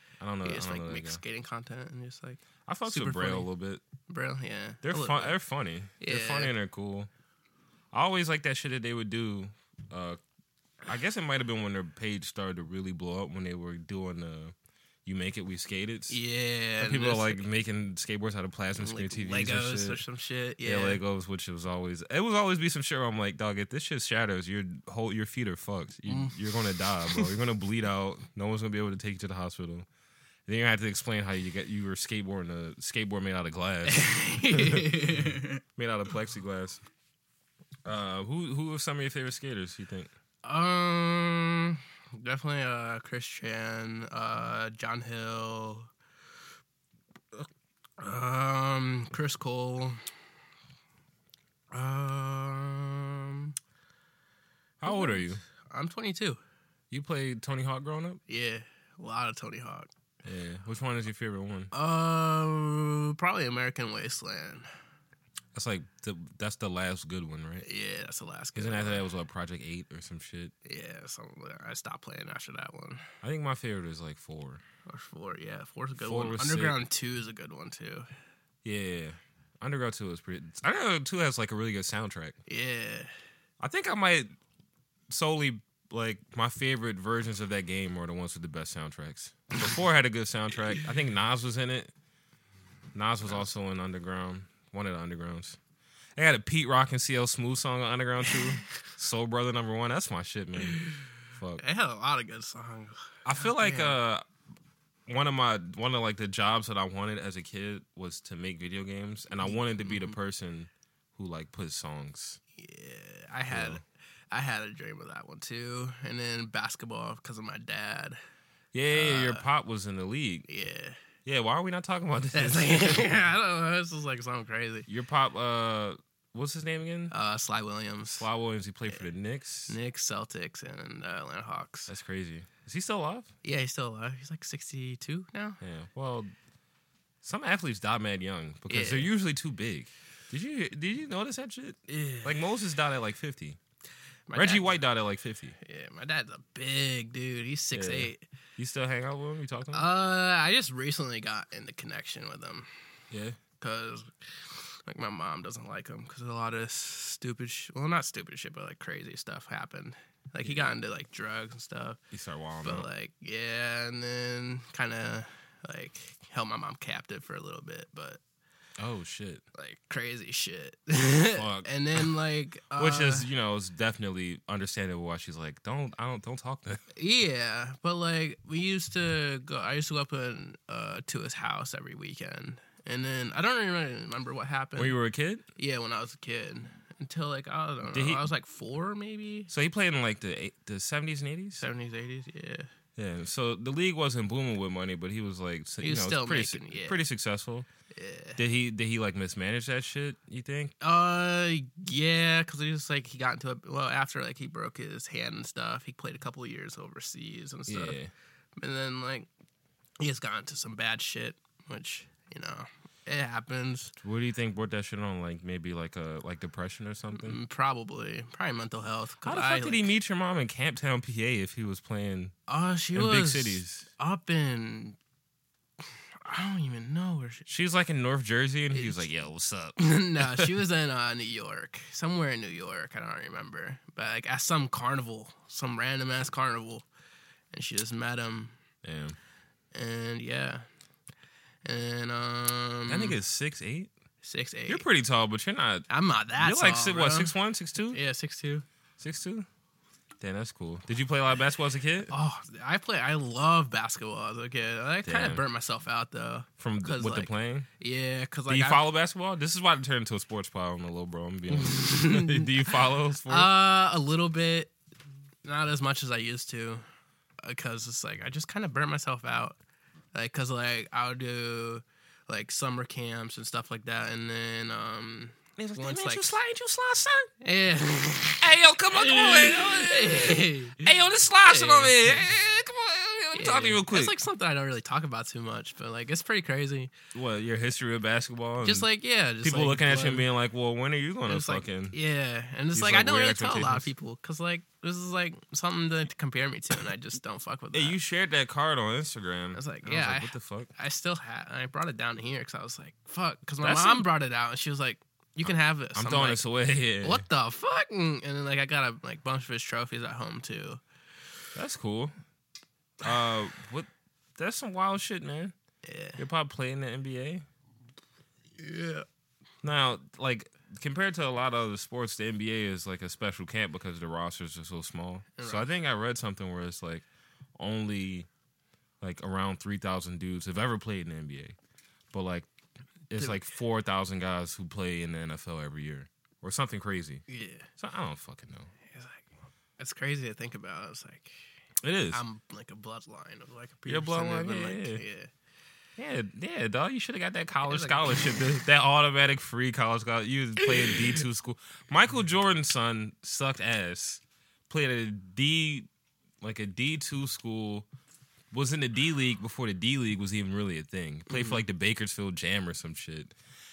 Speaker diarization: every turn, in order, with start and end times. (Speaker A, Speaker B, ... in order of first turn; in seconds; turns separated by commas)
Speaker A: 0.2-1.2, Speaker B: 0.4-3.5, Speaker A: 2.7-3.8, Speaker B: 4.1-5.3, Speaker A: 4.8-7.1, Speaker B: 6.0-6.5, Speaker A: 7.9-10.2, Speaker A: 10.9-14.5, Speaker A: 15.1-16.2, Speaker B: 16.1-17.4, Speaker A: 16.8-20.0, Speaker B: 18.8-21.0, Speaker A: 20.6-29.9, Speaker B: 26.1-26.4, Speaker B: 27.1-27.3, Speaker A: 30.5-36.8, Speaker B: 33.9-35.6, Speaker A: 37.9-40.1, Speaker B: 40.4-45.9, Speaker B: 47.4-50.0, Speaker B: 51.7-53.5, Speaker A: 54.8-55.4, Speaker B: 54.8-56.4, Speaker A: 56.9-58.2, Speaker B: 58.3-59.9, Speaker A: 60.2-61.7, Speaker B: 61.7-64.7, Speaker A: 65.5-67.7, Speaker B: 67.6-69.0, Speaker A: 68.5-70.5, Speaker B: 70.7-73.0, Speaker A: 73.2-74.6, Speaker B: 74.9-78.1, Speaker A: 76.0-76.8, Speaker A: 78.6-82.4, Speaker B: 82.5-83.1, Speaker A: 83.6-84.3, Speaker A: 85.1-91.9, Speaker A: 93.0-95.6, Speaker A: 96.2-100.8, Speaker A: 101.4-101.6, Speaker B: 101.6-104.0, Speaker A: 103.2-104.2, Speaker A: 105.1-112.4, Speaker B: 109.5-110.1, Speaker B: 112.6-113.8, Speaker A: 113.5-113.8, Speaker B: 114.3-118.2, Speaker A: 118.7-120.5, Speaker B: 118.9-119.5, Speaker B: 120.5-121.0, Speaker A: 121.2-123.0, Speaker B: 122.3-124.9, Speaker A: 124.9-127.1, Speaker B: 127.1-128.3, Speaker A: 128.2-129.8, Speaker B: 129.7-131.9, Speaker A: 131.9-133.3, Speaker B: 133.4-135.6, Speaker A: 135.6-136.3, Speaker A: 137.2-143.6, Speaker B: 138.7-139.1, Speaker B: 141.9-142.5, Speaker B: 144.3-144.8, Speaker A: 144.3-145.6, Speaker B: 145.6-148.2, Speaker A: 147.7-149.9, Speaker B: 149.7-152.7, Speaker A: 153.1-153.4, Speaker B: 153.6-154.1, Speaker B: 154.8-162.0, Speaker A: 160.4-160.7, Speaker A: 162.1-162.9, Speaker B: 162.6-168.2, Speaker A: 168.8-169.4, Speaker B: 169.6-173.3, Speaker A: 171.3-172.1, Speaker A: 172.8-176.8, Speaker B: 177.0-185.0, Speaker A: 184.8-185.4, Speaker B: 185.6-189.5, Speaker A: 187.9-188.2, Speaker A: 189.5-191.7, Speaker B: 191.6-192.7, Speaker A: 193.0-197.7, Speaker B: 195.8-197.0, Speaker B: 197.9-198.4, Speaker A: 198.4-200.7, Speaker B: 200.8-208.0, Speaker A: 207.7-208.1, Speaker B: 208.6-209.3, Speaker B: 210.0-213.9, Speaker A: 214.0-217.4, Speaker B: 217.1-219.9, Speaker A: 219.2-222.3, Speaker B: 222.5-225.0, Speaker A: 222.9-223.9, Speaker B: 226.2-227.5, Speaker A: 227.5-230.5, Speaker B: 228.7-229.1, Speaker B: 229.8-236.9, Speaker B: 237.5-238.5, Speaker A: 238.8-239.2, Speaker B: 239.7-240.7, Speaker B: 241.7-243.2, Speaker A: 242.9-243.9, Speaker B: 244.2-244.8, Speaker A: 244.7-245.9, Speaker B: 245.9-247.3, Speaker A: 246.4-248.0, Speaker B: 247.9-248.7, Speaker A: 249.0-249.5, Speaker A: 250.2-252.1, Speaker B: 252.1-258.8, Speaker A: 255.1-255.4, Speaker A: 256.6-257.7, Speaker A: 258.5-263.5, Speaker B: 261.5-262.7, Speaker B: 263.3-264.7, Speaker B: 265.4-266.8, Speaker B: 267.4-269.6, Speaker B: 270.1-276.4, Speaker A: 275.6-277.3, Speaker B: 277.4-280.9, Speaker A: 278.4-284.1, Speaker B: 281.5-282.3, Speaker B: 283.3-286.9, Speaker A: 287.1-288.9, Speaker B: 288.6-290.3, Speaker A: 289.4-292.0, Speaker B: 291.3-298.0, Speaker A: 292.7-293.9, Speaker A: 297.7-300.7, Speaker B: 299.6-306.4, Speaker A: 303.6-304.1, Speaker A: 305.4-307.3, Speaker B: 307.0-310.8, Speaker A: 311.6-312.1, Speaker A: 313.0-315.6, Speaker B: 315.8-316.2, Speaker A: 316.2-317.4, Speaker B: 318.6-319.1, Speaker A: 319.6-328.3, Speaker B: 325.4-325.7, Speaker A: 329.0-331.6, Speaker A: 332.1-332.5, Speaker A: 333.1-337.2, Speaker B: 337.3-337.7, Speaker A: 337.8-338.7, Speaker B: 338.9-341.4, Speaker A: 341.8-342.2, Speaker B: 342.1-345.3, Speaker A: 343.9-345.0, Speaker A: 346.0-355.9, Speaker B: 347.6-348.3, Speaker B: 350.7-351.2, Speaker A: 356.4-357.9, Speaker A: 358.5-363.3, Speaker B: 361.3-361.6